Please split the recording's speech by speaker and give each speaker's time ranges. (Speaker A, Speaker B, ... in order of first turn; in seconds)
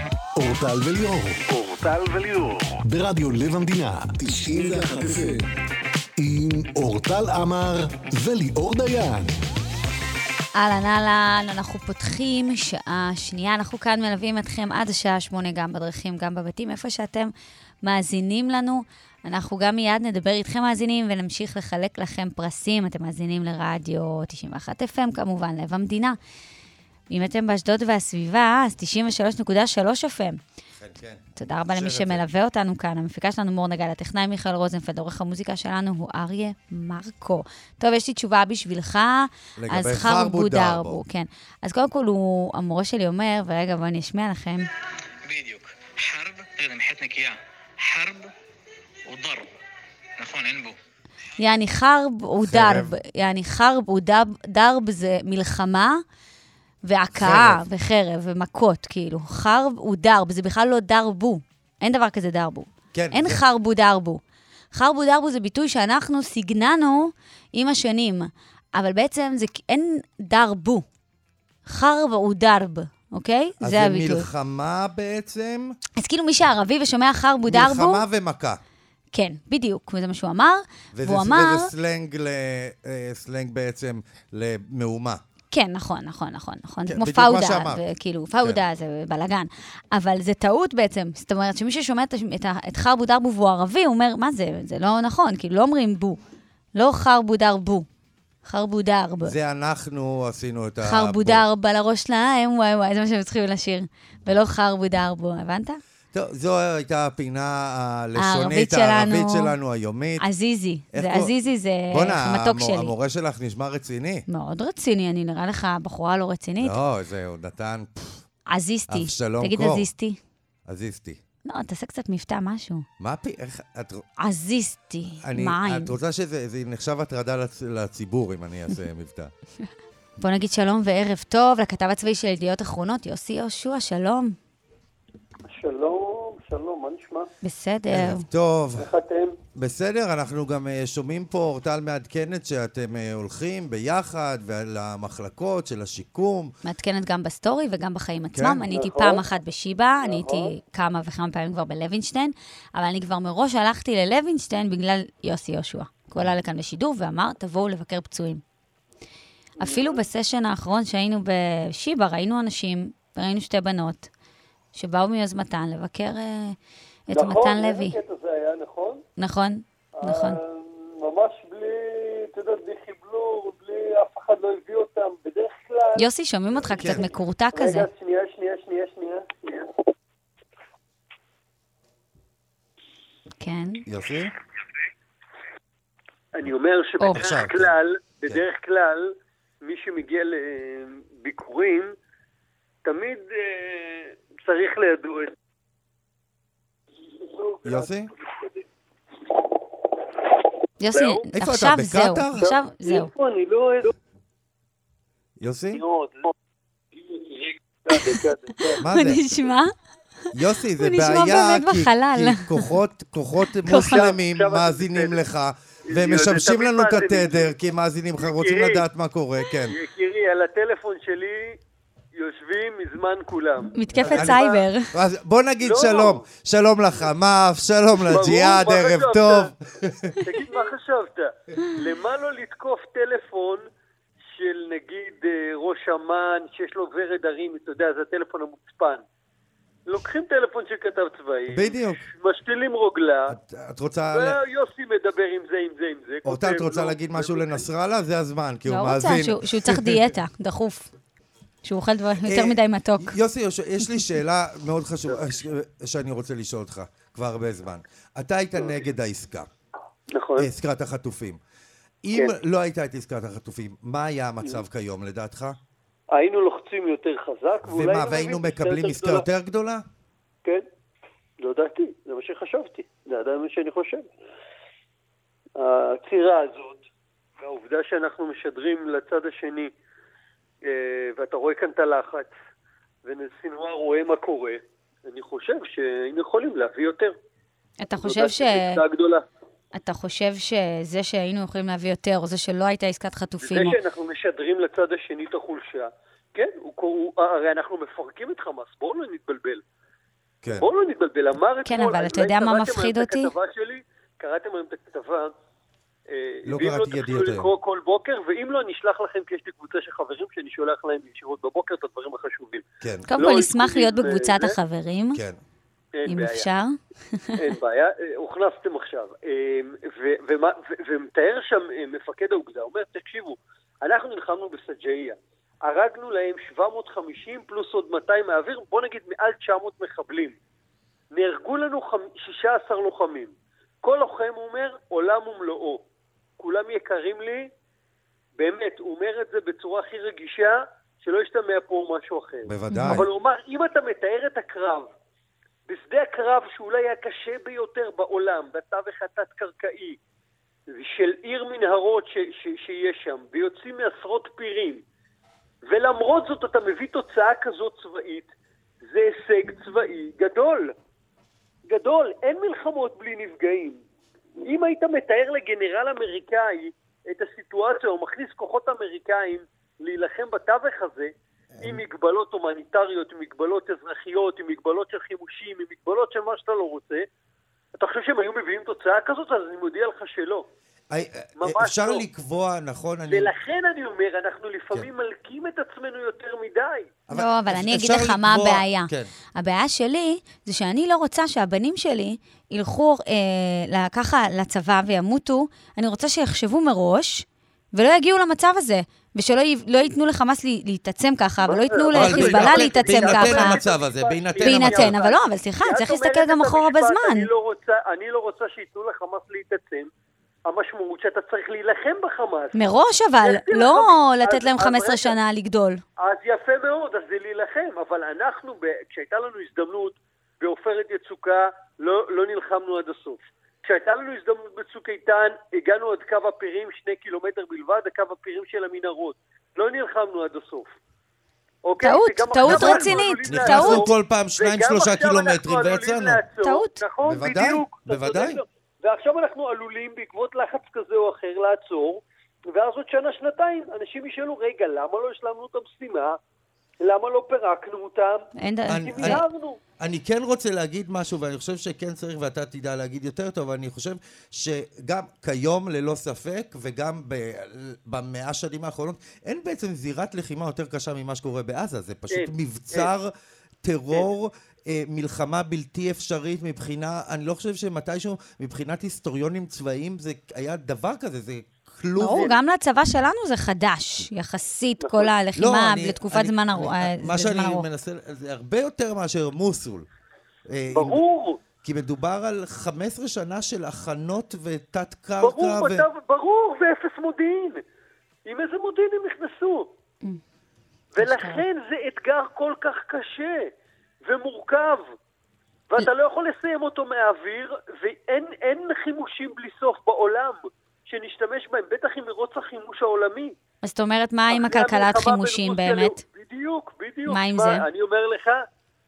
Speaker A: 0.3-1.4, 2.8-5.5, 6.2-9.4
Speaker B: 1.5-2.8, 45.2-48.3, 49.1-49.5, 50.2-50.8
Speaker C: 10.5-17.3, 17.8-26.2, 27.1-30.4, 31.4-44.7, 51.4-56.0, 56.8-64.2, 64.7-70.8, 71.7-74.3, 76.0-78.0, 79.1-81.7, 85.5-96.2, 96.7-97.8, 98.4-99.3, 100.8-105.8, 108.2-109.5, 110.2-112.9, 114.3-116.8, 118.5-120.2, 121.5-122.8, 124.2-125.9, 130.2-134.4, 137.4-138.3, 146.6-158.4, 159.6-164.1, 164.7-166.6, 167.1-167.9, 169.2-170.4, 175.9-177.9, 183.4-183.8, 200.8-203.1, 207.9-209.7, 210.8-212.7, 213.6-214.1, 223.7-224.9, 248.7-250.9, 251.6-253.2, 287.8-288.8, 289.7-293.8, 301.6-303.3, 313.1-315.2, 316.1-317.3, 342.7-343.0, 387.1-403.6, 404.4-407.3, 412.5-415.8, 431.8-433.9, 436.4-436.8, 448.4-449.2, 472.0-477.7, 491.0-491.4, 503.6-506.0, 507.1-507.6
Speaker D: 30.8-32.2, 39.6-41.0, 52.4-52.9, 57.1-57.6, 62.9-63.4, 73.6-75.8, 77.5-78.6, 80.9-85.2, 86.9-87.8, 99.2-101.4, 106.1-110.2, 110.9-111.3, 111.9-114.2, 116.6-118.2, 118.9-119.9, 120.7-121.2, 123.0-124.0, 125.2-129.3, 137.9-138.9, 139.5-146.5, 148.3-148.6, 176.7-177.1, 183.8-184.3, 187.1-187.7, 197.6-198.1, 201.3-202.5, 205.4-205.8, 208.8-209.2, 210.3-219.8, 224.1-230.2, 241.5-242.1, 243.3-244.4, 246.2-250.1, 252.2-259.5, 260.4-261.4, 262.0-265.6, 267.6-269.8, 300.4-300.7, 306.4-307.5, 312.8-313.1, 315.1-315.4, 342.4-343.1, 371.5-371.8, 380.9-383.3, 387.1-389.1, 401.9-405.0, 432.4-436.2, 437.0-438.4, 448.7-449.2, 449.8-463.1, 463.6-472.3, 475.4-479.9, 480.5-481.0, 481.6-485.9
Speaker E: 135.5-137.3, 138.8-139.3, 148.7-149.2, 150.0-150.5, 159.6-160.0, 167.1-169.0, 170.0-176.1, 177.5-179.7, 186.3-191.9, 192.8-195.3, 197.2-198.6, 200.9-201.2, 202.4-203.9, 205.7-206.3, 206.9-208.8, 213.8-215.2, 215.9-217.5, 218.2-218.8, 219.7-221.6, 222.1-224.6, 225.6-226.2, 228.1-229.5, 230.2-233.6, 234.3-239.0, 239.9-243.3, 244.1-247.6, 260.1-260.5, 266.1-269.2, 271.4-274.1, 275.6-276.9, 277.4-279.7, 280.6-282.3, 283.0-287.1, 288.0-289.2, 293.4-299.6, 300.5-305.3, 306.1-312.6, 313.1-314.6, 315.9-316.5, 317.4-330.4, 331.1-335.8, 336.4-337.5, 338.4-344.9, 345.7-350.0, 350.7-354.8, 355.7-358.3, 358.8-360.7, 361.7-363.8, 364.4-377.1, 377.8-380.4, 381.4-382.0, 383.1-387.0, 401.4-409.9, 410.5-412.6, 413.2-415.1, 416.0-430.7, 431.6-446.2, 446.8-449.6, 462.1-462.9, 474.8-475.1, 480.7-481.4, 485.2-487.6, 488.2-489.7, 490.9-493.5, 494.0-494.9, 495.7-503.3, 504.3-508.4